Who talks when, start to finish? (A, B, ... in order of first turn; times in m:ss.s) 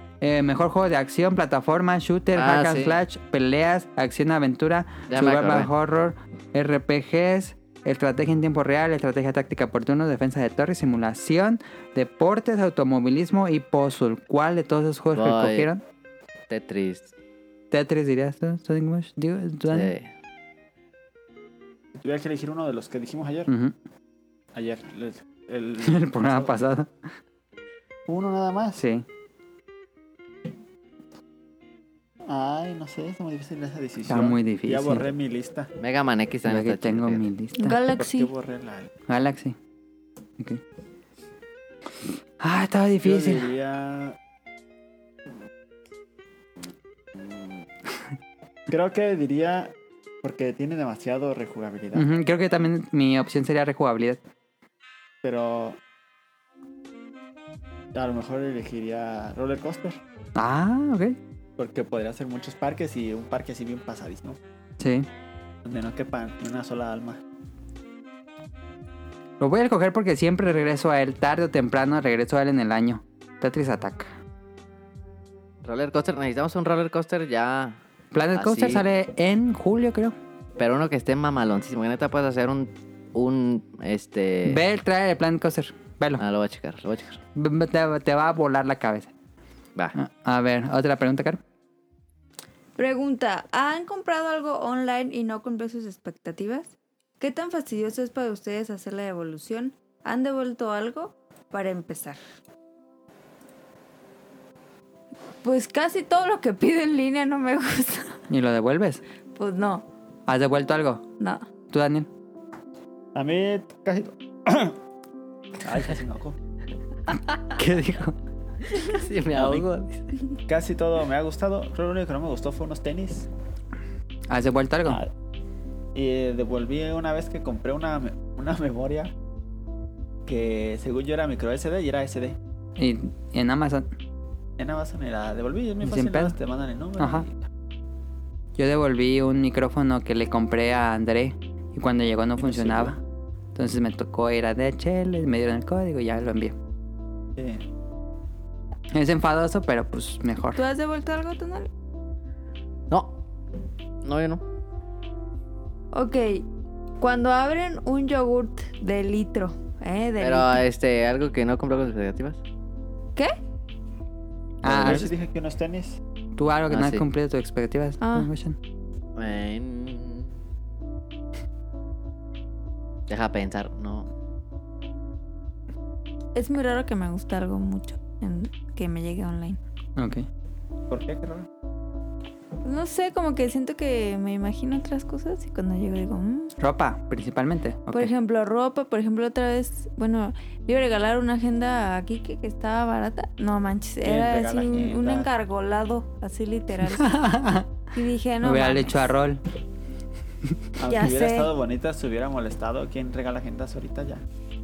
0:00.2-0:15.8 A
0:02.4-0:03.0 B
0:05.1-0:05.7 B
0:15.2-0:15.7 B
0:16.5-0:17.1 B
0:17.7-0:19.9 A
0:19.7-0:20.1 B
0:22.0-0:23.5 C
0:23.5-0:23.8 A
0:24.5-0:26.5 C
0:25.8-0:26.9 A
0:28.1-0:28.8 C
0:28.8-0:29.0 A
0:32.2-0:35.7 C
0:34.1-0:35.1 A
0:35.8-0:37.2 B
0:36.5-0:37.8 A
0:37.6-0:38.3 D
0:38.0-0:38.9 C
0:39.1-0:39.6 A
0:42.4-0:43.5 A
0:43.0-0:44.2 C
0:47.2-0:47.5 C
0:48.7-0:52.1 C
0:51.9-0:54.2 A
0:55.2-0:55.8 C
0:57.9-1:00.0 C
1:00.4-1:01.2 A
1:01.6-1:04.4 C
1:04.8-1:05.1 A
1:05.6-1:07.2 C
1:09.4-1:14.1 A
1:15.6-1:17.8 B
1:18.1-1:20.2 A
1:18.4-1:18.8 B
1:20.6-1:24.6 B
1:24.5-1:26.2 A
1:26.2-1:27.2 B
1:27.4-1:29.1 A
1:30.0-1:31.4 A
1:32.8-1:42.2 D
1:45.4-1:48.2 D
1:48.3-1:49.0 A
1:49.4-1:49.8 D
1:50.3-1:51.0 A
1:51.2-1:51.5 D
1:51.7-1:52.1 A
1:53.2-1:54.8 C
1:55.6-1:56.4 C
1:57.6-1:58.2 A
1:58.8-2:00.0 B
1:59.4-1:59.6 A
2:00.5-2:03.3 C
2:04.3-2:05.0 A
2:06.0-2:09.1 C
2:10.2-2:12.4 C
2:12.8-2:13.9 A
2:14.6-2:17.5 C
2:15.8-2:16.4 A
2:17.0-2:17.3 A
2:18.6-2:23.0 A
2:22.4-2:23.0 C
2:23.6-2:26.6 A
2:27.4-2:27.6 C
2:28.9-2:30.6 A
2:30.6-2:31.7 D
2:34.0-2:34.4 B
2:35.9-2:36.4 D
2:37.0-2:40.6 D
2:40.2-2:42.4 B
2:44.6-2:45.1 A
2:44.6-2:46.0 C
2:46.4-2:48.6 A
2:46.7-2:47.0 B
2:48.0-2:48.3 D
2:49.2-2:50.3 B
2:53.1-2:54.1 B
2:56.4-2:59.6 D
3:00.0-3:00.3 A
3:00.9-3:01.5 C
3:02.6-3:06.5 D
3:06.6-3:08.1 A
3:07.9-3:17.2 D
3:14.0-3:15.3 C
3:17.0-3:17.7 A
3:17.9-3:19.0 D
3:18.4-3:19.4 A
3:20.8-3:24.2 C
3:20.9-3:21.5 D